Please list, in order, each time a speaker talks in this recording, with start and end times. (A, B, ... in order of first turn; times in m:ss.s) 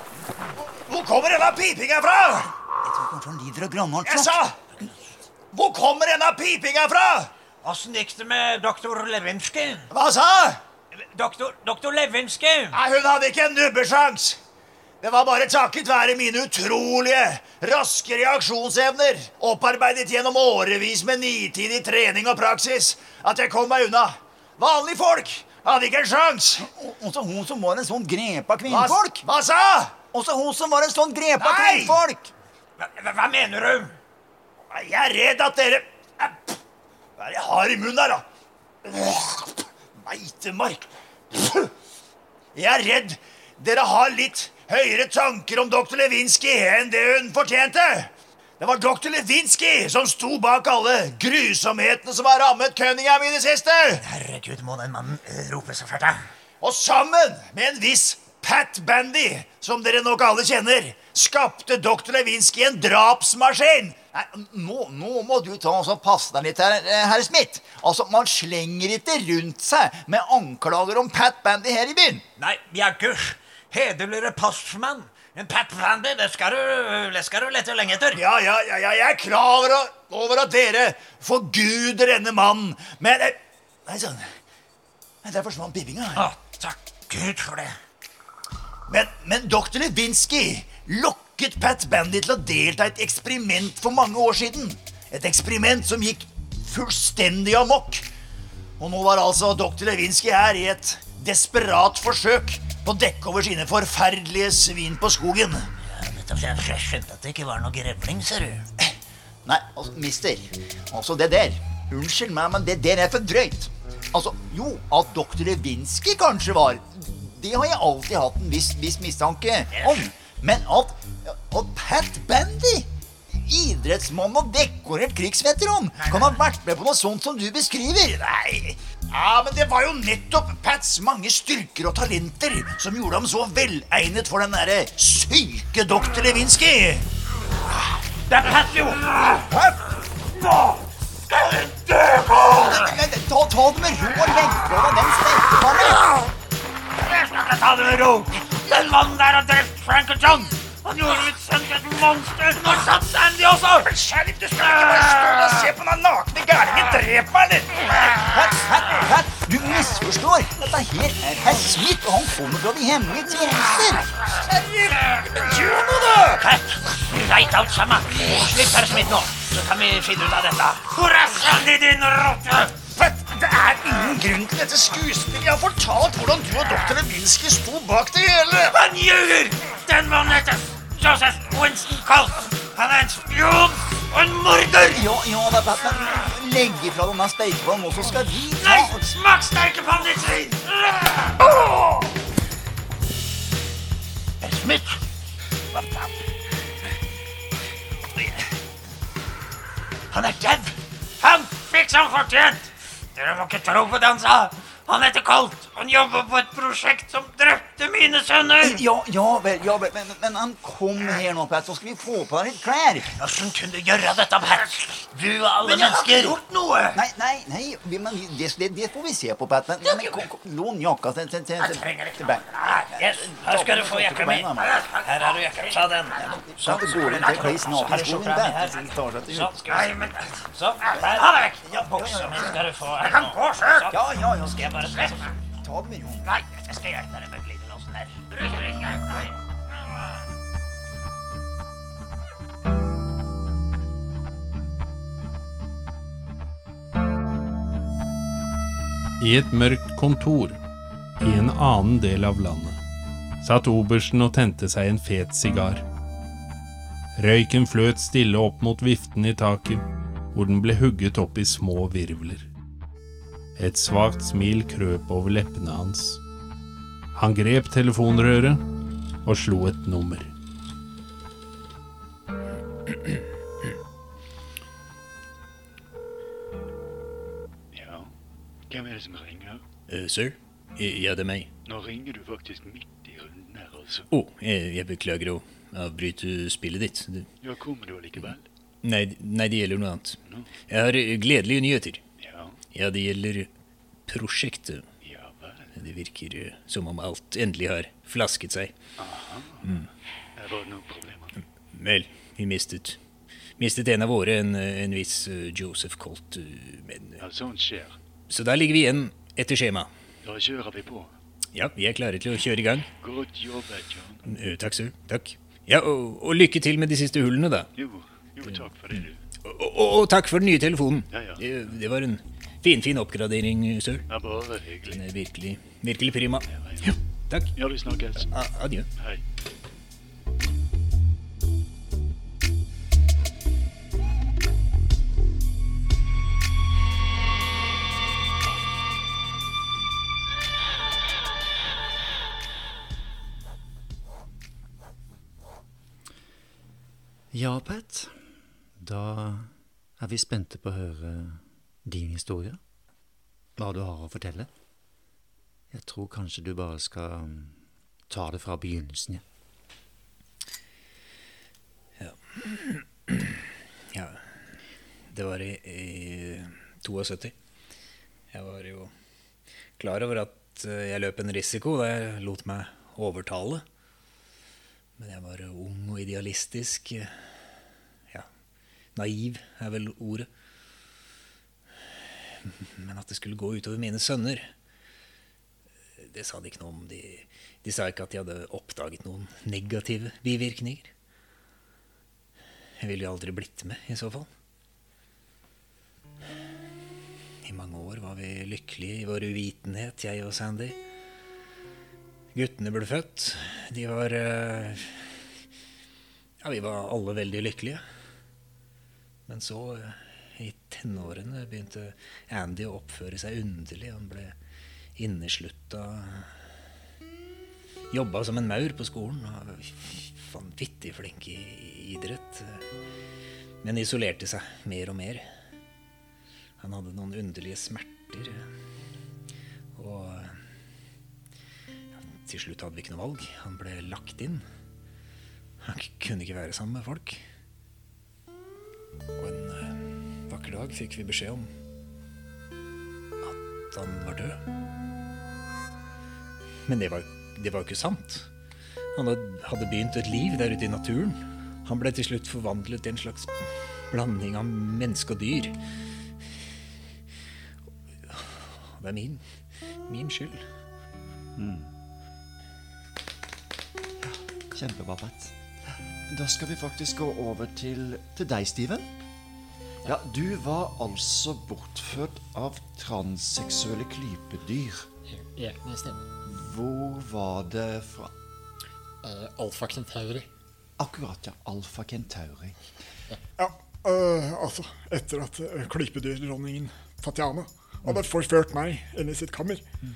0:00.6-0:02.5 A
0:02.8-0:04.4 B
0:04.1-0:04.6 A
0:05.5-0:07.3 A
0:07.6-0:09.9 C
0:09.9-0:10.6 A
0:11.0-0:12.8 C
0:12.7-0:14.4 A
0:15.0-0:26.7 A
0:26.6-0:29.3 B
0:28.7-0:30.0 A
0:30.1-0:32.3 B
0:31.4-0:32.0 A
0:32.8-0:33.9 C
0:34.7-0:36.6 A
0:37.2-0:38.2 A
0:38.8-0:41.7 A
0:42.5-0:54.0 A
0:54.0-0:56.2 C
0:56.6-1:04.1 A
1:04.1-1:12.2 B
1:12.4-1:18.2 C
1:18.1-1:24.2 A
1:25.2-1:26.2 B
1:25.4-1:26.2 A
1:26.2-1:27.7 C
1:28.9-1:38.0 A
1:38.8-1:45.7 A
1:45.9-1:48.6 C
1:49.4-2:08.5 B
1:59.7-2:00.0 C
2:08.4-2:17.0 A
2:18.3-2:19.0 C
2:22.5-2:26.1 B
2:27.1-2:33.7 C
2:33.7-2:37.8 A
2:38.3-2:44.1 B
2:44.4-2:46.4 A
2:46.4-2:52.7 C
2:52.9-2:58.8 A
2:58.7-3:05.0 C
3:04.8-3:09.0 B
3:08.6-3:11.4 C
3:14.4-3:15.0 C
3:15.7-3:16.1 C
3:20.1-3:28.8 C
3:28.6-3:33.1 B
3:33.2-3:37.0 C
3:35.7-3:36.3 A
3:36.9-3:42.6 B
3:39.8-3:40.2 C
3:41.6-3:54.0 C
3:43.3-3:44.8 B
3:46.2-3:49.5 B
3:51.8-3:52.4 B
3:53.9-3:56.3 B
3:54.5-3:55.1 C
3:56.2-3:59.2 C
4:09.2-4:10.6 D
4:11.2-4:12.8 D
4:13.4-4:15.8 D
4:17.2-4:19.8 D
4:20.3-4:22.5 D
4:23.6-4:26.2 D
4:27.1-4:28.6 D
4:29.2-4:30.3 D
4:37.7-4:38.1 E
4:38.7-4:39.6 E
4:39.9-4:41.5 F
4:41.6-4:44.1 E
4:44.1-4:47.3 F
4:47.4-4:48.5 E
4:48.8-4:52.0 F
4:50.2-4:50.5 E
4:52.2-4:52.6 E
4:52.7-4:53.5 F
4:54.1-4:54.8 F
4:55.0-4:55.7 E
4:55.8-4:58.7 F
4:59.0-4:59.8 E
5:00.4-5:01.4 E
5:01.7-5:03.0 F
5:03.6-5:07.2 F
5:07.2-5:08.0 E
5:08.3-5:09.9 F
5:10.2-5:11.1 E
5:11.5-5:12.9 F
5:13.0-5:14.4 E
5:14.3-5:17.7 F
5:17.8-5:19.2 E
5:19.4-5:24.0 F
5:21.1-5:21.5 E
5:24.1-5:25.1 E
5:24.8-5:27.5 F
5:26.5-5:26.9 E
5:27.6-5:28.3 E
5:28.3-5:28.9 F
5:29.0-5:29.2 E
5:47.3-5:52.6 G
5:53.6-5:54.5 G
5:55.7-5:59.2 G
6:02.0-6:03.4 F
6:03.9-6:04.2 F
6:05.1-6:07.3 F
6:08.3-6:08.9 F
6:09.8-6:13.6 F
6:15.0-6:17.1 F
6:19.0-6:20.3 F
6:22.9-6:23.3 F
6:26.0-6:29.8 F
6:30.0-6:30.9 C
6:32.8-6:34.3 F
6:37.4-6:38.5 F
6:39.6-6:40.5 C
6:42.3-6:45.0 F
6:46.4-6:47.8 F
6:49.3-6:54.3 F
6:55.0-6:56.3 F
6:57.9-7:02.6 F
7:03.6-7:05.2 F
7:06.6-7:08.4 F
7:09.8-7:10.4 F
7:12.0-7:14.4 F
7:15.6-7:17.2 F
7:19.2-7:21.5 F
7:23.2-7:24.4 F
7:26.7-7:28.3 F
7:28.9-7:35.6 F
7:38.1-7:39.2 F
7:39.8-7:40.4 F
7:41.4-7:41.7 H
7:44.0-7:45.3 H
7:46.1-7:48.9 H
7:49.8-7:54.9 H
7:55.1-7:56.1 I
7:56.2-7:58.1 H
7:59.0-8:00.3 I
8:00.8-8:02.6 H
8:03.4-8:09.6 J